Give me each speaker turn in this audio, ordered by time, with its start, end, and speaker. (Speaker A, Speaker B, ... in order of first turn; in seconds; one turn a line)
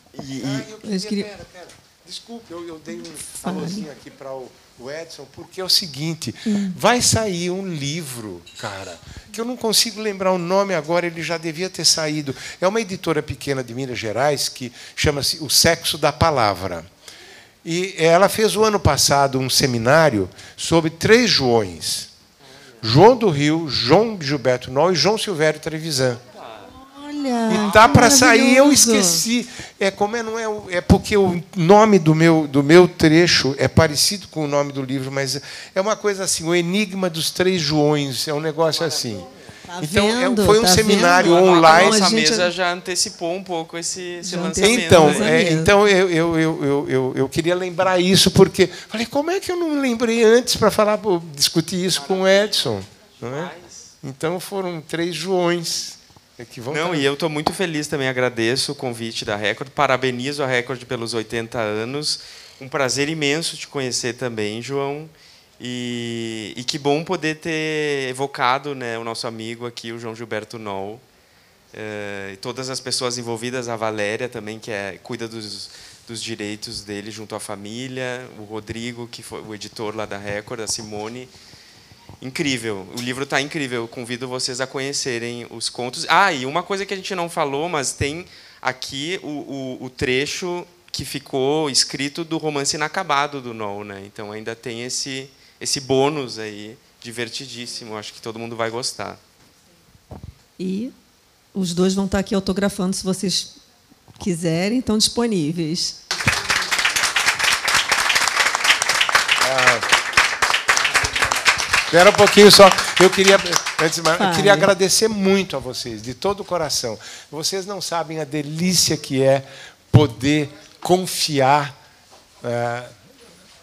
Speaker A: 0.1-0.7
Speaker B: 0.4-16.9
Speaker C: 0.8-1.3
Speaker C: 3.4-3.9
Speaker C: 6.5-6.8
Speaker B: 17.6-22.1
Speaker B: 22.8-26.2
Speaker C: 26.8-29.2
Speaker B: 27.5-39.3
Speaker C: 39.7-42.5
Speaker B: 39.8-42.0
Speaker A: 41.0-45.5
Speaker C: 44.2-45.7
Speaker B: 44.6-57.1
Speaker A: 52.2-53.9
Speaker A: 56.7-71.0
Speaker A: 71.7-81.3
Speaker A: 82.2-99.2
Speaker C: 100.6-100.9
Speaker C: 101.5-103.5
Speaker C: 104.2-106.0
Speaker B: 109.4-109.9
Speaker B: 111.9-121.7
Speaker C: 114.2-114.7
Speaker B: 122.4-122.9